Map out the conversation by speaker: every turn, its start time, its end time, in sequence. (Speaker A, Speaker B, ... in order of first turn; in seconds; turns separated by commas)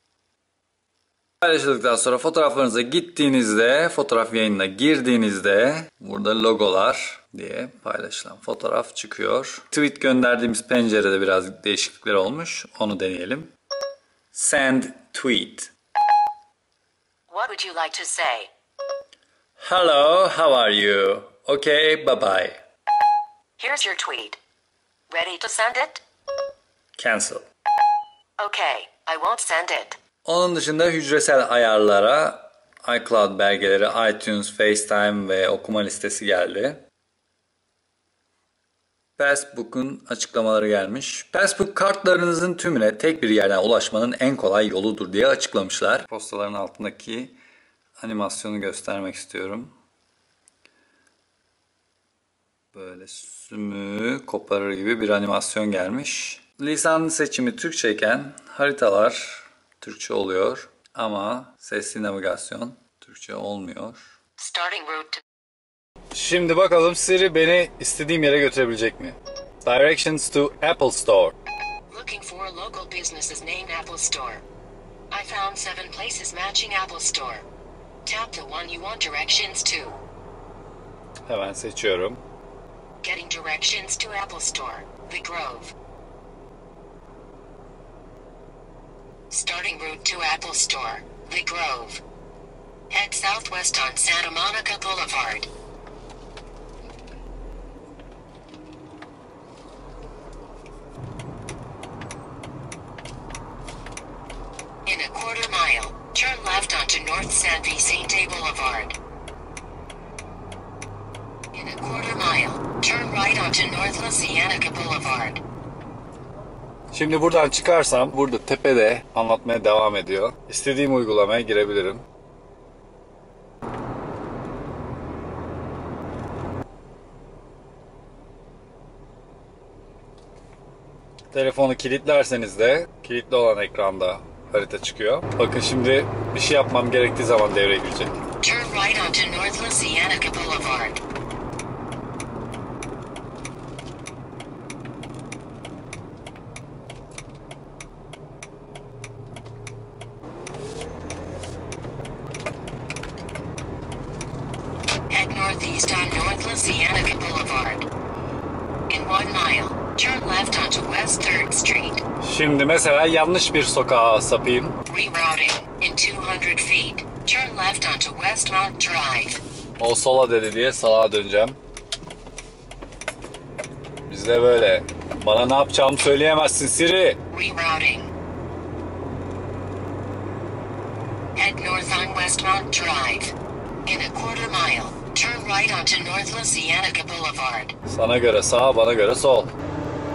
Speaker A: 1.4-13.5, Speaker A: 14.3-15.7, Speaker B: 17.3-18.5, Speaker A: 19.6-22.6, Speaker B: 23.6-24.4, Speaker B: 25.1-26.0, Speaker A: 26.9-27.4, Speaker B: 28.4-30.0, Speaker A: 30.2-36.8, Speaker A: 39.2-47.4, Speaker A: 48.0-49.7, Speaker A: 52.7-64.0, Speaker B: 64.4-65.2, Speaker A: 66.1-71.3, Speaker B: 71.9-74.4, Speaker B: 75.1-77.4, Speaker B: 78.0-80.0, Speaker A: 81.3-82.2, Speaker B: 83.0-85.7, Speaker B: 89.3-92.0, Speaker B: 92.9-95.5, Speaker B: 104.8-108.9, Speaker B: 111.5-115.4, Speaker A: 116.9-122.0, Speaker A: 131.3-138.2, Speaker B: 138.4-141.0, Speaker B: 155.1-157.9, Speaker B: 158.9-162.0, Speaker A: 162.2-164.8, Speaker B: 164.8-169.4, Speaker A: 169.8-171.6, Speaker A: 174.1-177.2, Speaker B: 177.3-178.1, Speaker B: 181.3-183.3, Speaker B: 183.8-187.7, Speaker A: 187.8-189.5